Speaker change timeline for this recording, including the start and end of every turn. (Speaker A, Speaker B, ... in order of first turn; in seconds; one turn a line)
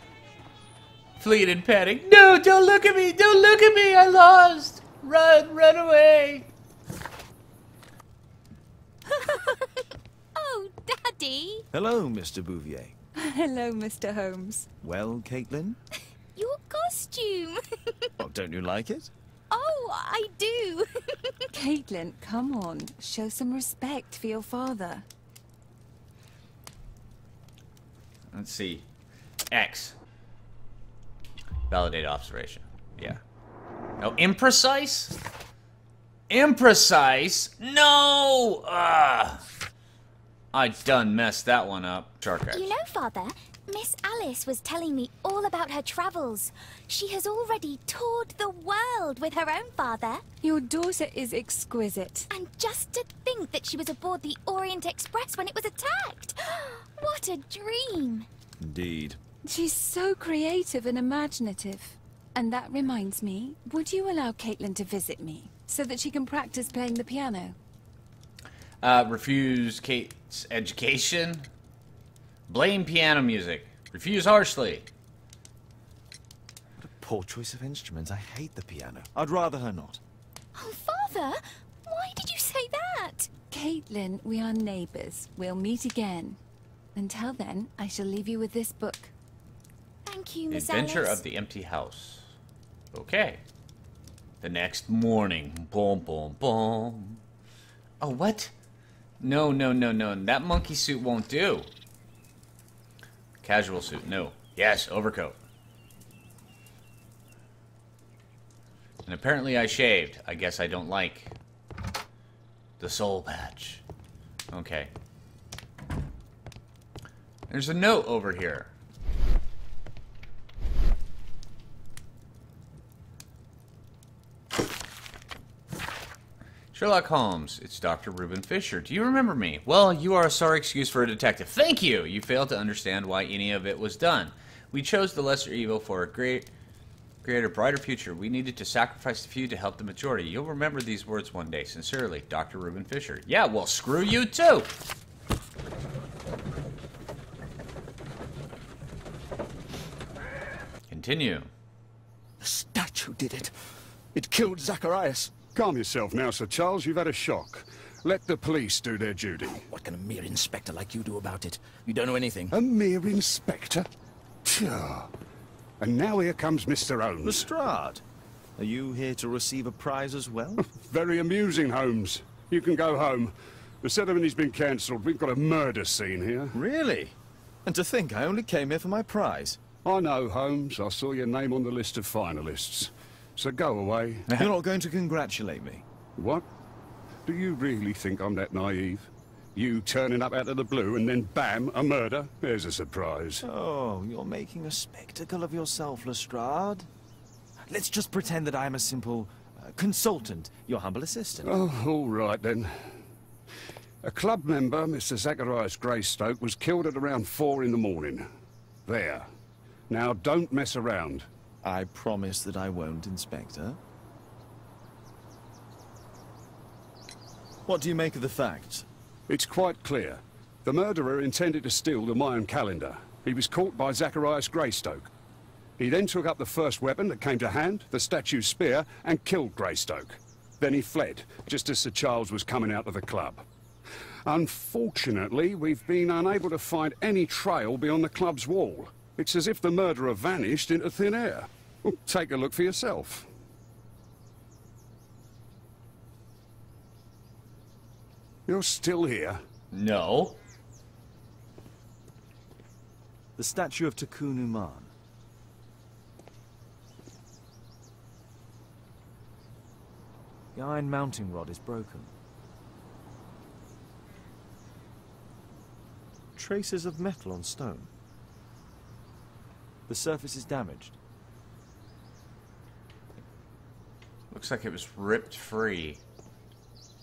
Speaker A: 1.2-6.5
Speaker B: 9.3-9.6
Speaker B: 10.3-11.6
Speaker C: 11.7-12.9
Speaker D: 13.2-14.7
Speaker C: 14.8-15.8
Speaker B: 16.3-18.1
Speaker C: 18.2-19.1
Speaker B: 19.5-21.5
Speaker D: 21.5-25.0
Speaker A: 28.3-28.8
Speaker A: 29.5-29.9
Speaker A: 31.7-33.2
Speaker A: 34.0-35.1
Speaker A: 36.3-39.4
Speaker A: 40.5-42.7
Speaker B: 42.5-50.2
Speaker D: 50.4-52.3
Speaker B: 52.3-58.3
Speaker C: 58.6-59.2
Speaker D: 59.5-67.5
Speaker A: 68.8-71.5
Speaker A: 72.5-74.9
Speaker C: 76.8-80.0
Speaker B: 80.5-83.3
Speaker D: 83.5-86.4
Speaker D: 86.9-89.1
Speaker B: 90.0-91.2
Speaker A: 90.5-92.3
Speaker A: 92.9-93.4
Speaker A: 94.4-97.2
Speaker A: 98.0-98.5
Speaker A: 99.2-101.7
Speaker A: 103.4-105.4
Speaker A: 109.0-111.3
Speaker A: 112.8-113.8
Speaker A: 114.5-114.9
Speaker A: 117.5-118.7
Speaker A: 126.7-136.5
Speaker A: 137.2-144.7
Speaker A: 150.9-151.5
Speaker E: 152.4-153.5
Speaker E: 154.1-155.3
Speaker F: 155.5-159.6
Speaker E: 159.6-162.6
Speaker F: 162.5-163.9
Speaker F: 164.4-165.1
Speaker F: 165.8-167.5
Speaker C: 167.2-168.0
Speaker C: 168.6-170.6
Speaker F: 170.6-176.6
Speaker C: 176.5-177.1
Speaker C: 177.7-179.6
Speaker F: 179.8-184.3
Speaker C: 184.4-185.8
Speaker F: 186.2-186.4
Speaker F: 187.2-193.4
Speaker C: 193.4-196.9
Speaker C: 197.7-201.6
Speaker F: 201.4-202.9
Speaker F: 204.0-208.3
Speaker F: 208.8-209.3
Speaker F: 209.9-211.3
Speaker C: 211.6-213.8
Speaker C: 217.7-218.8
Speaker F: 219.3-225.1
Speaker F: 225.8-233.4
Speaker F: 234.2-243.3
Speaker F: 248.5-249.4
Speaker A: 249.7-250.4
Speaker C: 253.4-254.9
Speaker C: 260.5-262.1
Speaker C: 266.4-267.9
Speaker C: 269.9-270.9
Speaker A: 274.3-276.0